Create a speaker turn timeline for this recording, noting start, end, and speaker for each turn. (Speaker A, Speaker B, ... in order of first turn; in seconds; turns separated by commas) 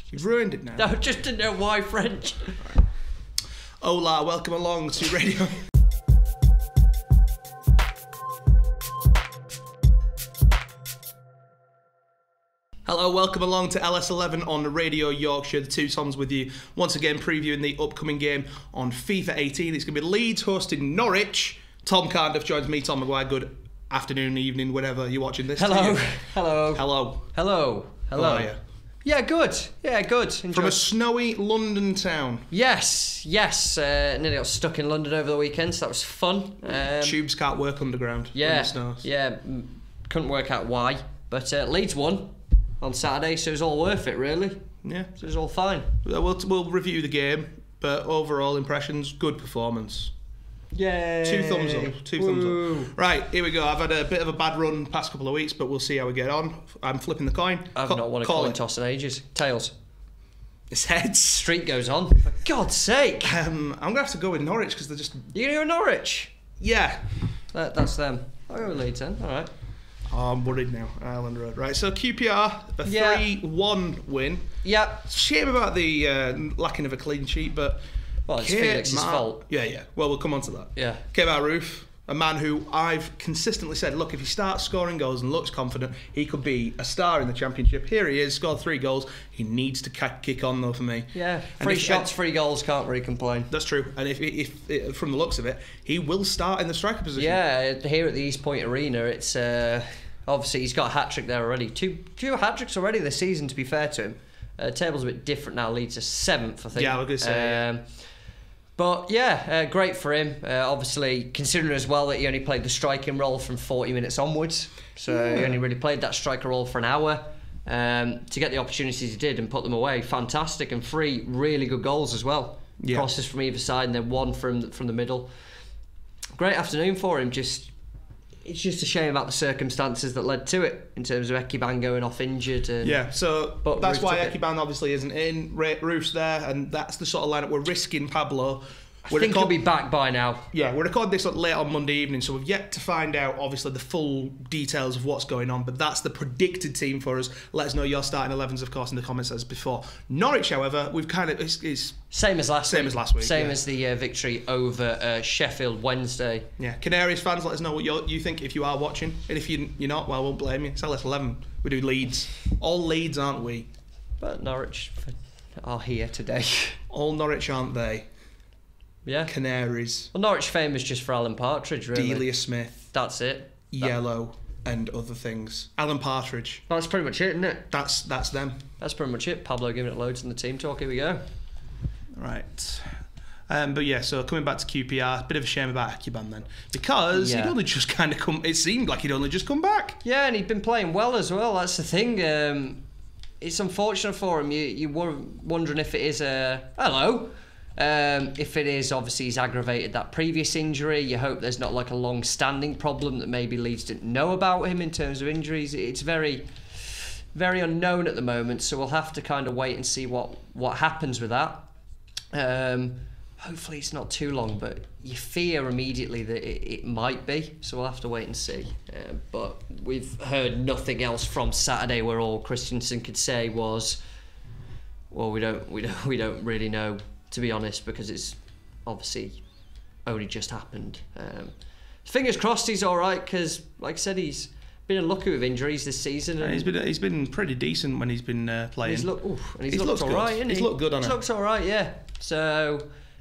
Speaker A: 0.1-0.9, Speaker B: 0.8-2.7, Speaker A: 3.8-5.5, Speaker A: 12.8-26.0, Speaker B: 25.6-28.5, Speaker A: 26.7-27.3, Speaker A: 28.1-28.6, Speaker B: 29.0-30.9, Speaker A: 30.5-32.5, Speaker B: 32.5-37.2, Speaker A: 37.0-39.1, Speaker B: 38.3-44.6, Speaker A: 44.8-45.2, Speaker B: 45.2-45.9, Speaker A: 46.0-50.1, Speaker B: 50.7-52.9, Speaker A: 51.2-58.6, Speaker B: 57.8-59.7, Speaker A: 60.7-61.5, Speaker B: 61.3-63.4, Speaker A: 63.2-65.3, Speaker B: 65.3-66.3, Speaker A: 66.6-67.1, Speaker B: 67.5-69.5, Speaker A: 70.1-74.5, Speaker B: 72.8-73.3, Speaker B: 74.6-75.0, Speaker A: 75.0-77.8, Speaker B: 78.2-79.4, Speaker A: 78.3-92.1, Speaker B: 80.8-81.0, Speaker B: 91.1-93.5, Speaker A: 93.5-97.4, Speaker B: 97.2-107.8, Speaker A: 106.7-107.7, Speaker B: 108.8-125.3, Speaker A: 115.1-115.6, Speaker A: 122.8-123.1, Speaker B: 126.4-127.7, Speaker B: 128.4-133.1, Speaker A: 132.8-139.6, Speaker B: 133.6-134.4, Speaker B: 139.1-140.4, Speaker A: 140.5-152.0, Speaker B: 152.1-156.5, Speaker A: 152.6-153.6, Speaker A: 156.6-163.7, Speaker B: 164.2-166.8, Speaker A: 166.9-168.1, Speaker B: 169.0-169.3, Speaker A: 169.2-170.1, Speaker B: 170.1-172.3, Speaker A: 171.9-172.8, Speaker B: 172.9-173.9, Speaker A: 173.7-176.6, Speaker B: 176.7-177.7, Speaker A: 177.7-178.6, Speaker B: 178.8-181.2, Speaker A: 182.2-190.0, Speaker B: 187.1-187.6, Speaker B: 190.0-192.8, Speaker B: 193.4-211.7, Speaker B: 212.3-224.0, Speaker B: 225.1-229.4, Speaker B: 230.1-231.5, Speaker B: 232.0-236.7, Speaker A: 236.4-239.1, Speaker B: 238.8-242.9, Speaker A: 239.7-241.2